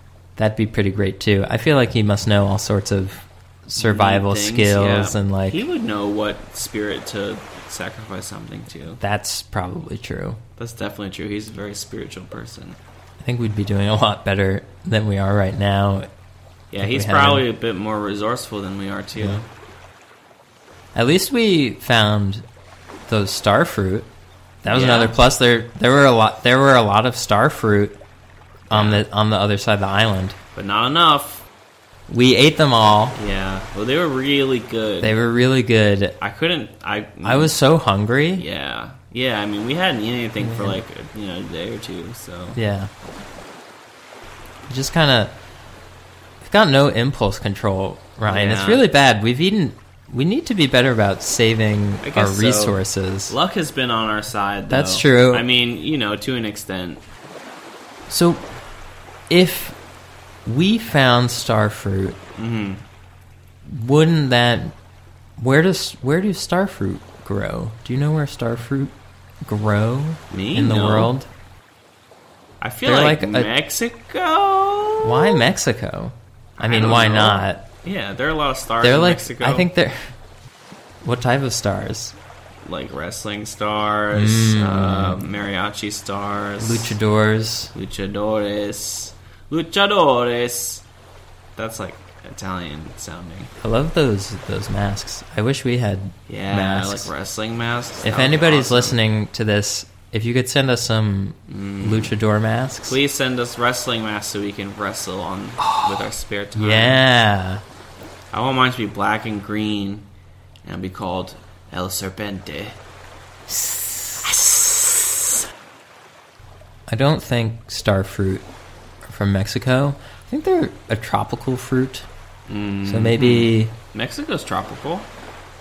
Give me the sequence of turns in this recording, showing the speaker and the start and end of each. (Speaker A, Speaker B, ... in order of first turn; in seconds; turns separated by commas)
Speaker A: 0.4-5.6, Speaker B: 3.8-9.0, Speaker A: 8.9-10.4, Speaker B: 10.6-12.8, Speaker A: 13.2-16.1, Speaker B: 16.7-19.4, Speaker A: 16.8-17.4, Speaker A: 19.2-19.4, Speaker A: 20.9-22.4, Speaker A: 23.1-24.1, Speaker A: 24.6-28.0, Speaker B: 24.7-25.2, Speaker A: 28.7-30.4, Speaker B: 28.7-29.1, Speaker B: 30.6-31.4, Speaker A: 32.1-33.2, Speaker B: 33.2-35.1, Speaker A: 35.0-36.2, Speaker B: 36.2-37.5, Speaker A: 37.2-38.5, Speaker B: 38.4-42.6, Speaker A: 40.4-40.8, Speaker A: 42.5-42.9, Speaker A: 44.7-45.4, Speaker A: 46.4-53.3, Speaker B: 48.3-48.8, Speaker B: 52.0-57.0, Speaker A: 54.7-55.4, Speaker A: 58.1-58.4, Speaker A: 59.3-59.8, Speaker A: 60.4-62.2, Speaker B: 62.4-62.8, Speaker A: 63.7-64.7, Speaker A: 65.4-71.3, Speaker B: 70.3-71.1, Speaker B: 72.6-75.5, Speaker A: 72.8-73.5, Speaker A: 75.0-77.7, Speaker B: 76.6-79.7, Speaker A: 78.8-80.1, Speaker A: 81.0-82.2, Speaker B: 82.7-87.0, Speaker A: 84.1-85.2, Speaker A: 86.6-87.7, Speaker B: 87.7-90.8, Speaker B: 91.6-93.5, Speaker A: 93.6-97.1, Speaker B: 96.3-99.0, Speaker A: 98.0-103.0, Speaker B: 101.5-102.2, Speaker B: 102.9-107.0, Speaker A: 105.6-107.6, Speaker B: 108.3-110.1, Speaker B: 110.7-112.8, Speaker A: 116.9-118.4, Speaker A: 119.0-122.1, Speaker B: 122.5-125.1, Speaker A: 122.8-123.7